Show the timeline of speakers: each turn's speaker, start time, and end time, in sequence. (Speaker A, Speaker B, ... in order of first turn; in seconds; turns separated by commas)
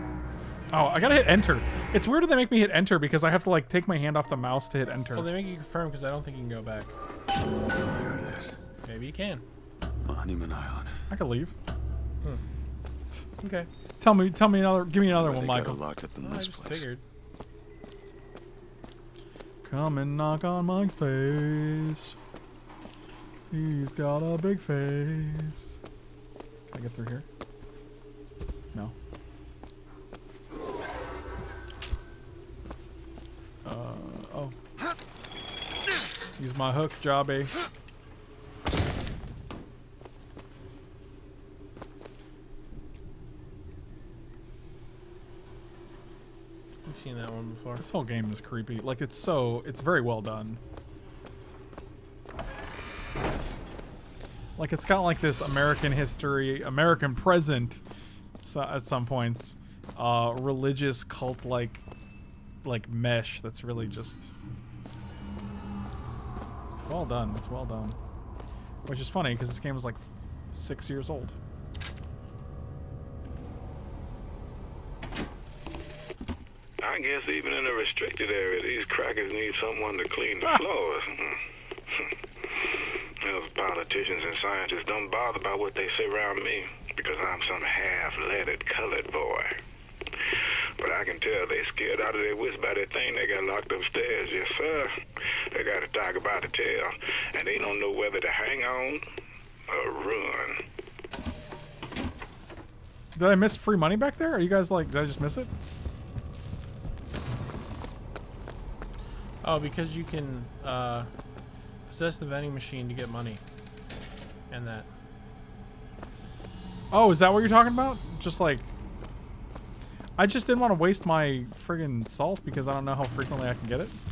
Speaker A: 0.7-5.3, Speaker B: 5.2-6.9, Speaker C: 7.7-8.6, Speaker B: 8.8-9.4, Speaker C: 10.0-11.0, Speaker A: 11.1-11.5, Speaker B: 13.4-13.7, Speaker A: 14.0-15.8, Speaker C: 15.1-16.9, Speaker B: 16.2-17.0, Speaker A: 19.6-22.1, Speaker A: 23.5-25.8, Speaker A: 26.7-27.2, Speaker A: 33.6-34.5, Speaker A: 36.4-37.5, Speaker B: 46.9-47.9, Speaker A: 47.8-50.6, Speaker A: 54.6-57.8, Speaker A: 58.4-61.8, Speaker A: 62.6-64.3, Speaker A: 66.8-68.0, Speaker A: 68.9-71.4, Speaker D: 76.8-89.6, Speaker D: 90.3-95.0, Speaker D: 95.5-99.0, Speaker D: 99.7-100.6, Speaker A: 103.2-105.5, Speaker B: 109.4-111.1, Speaker B: 111.9-113.4, Speaker B: 114.5-114.9, Speaker A: 116.9-118.7, Speaker A: 120.2-124.0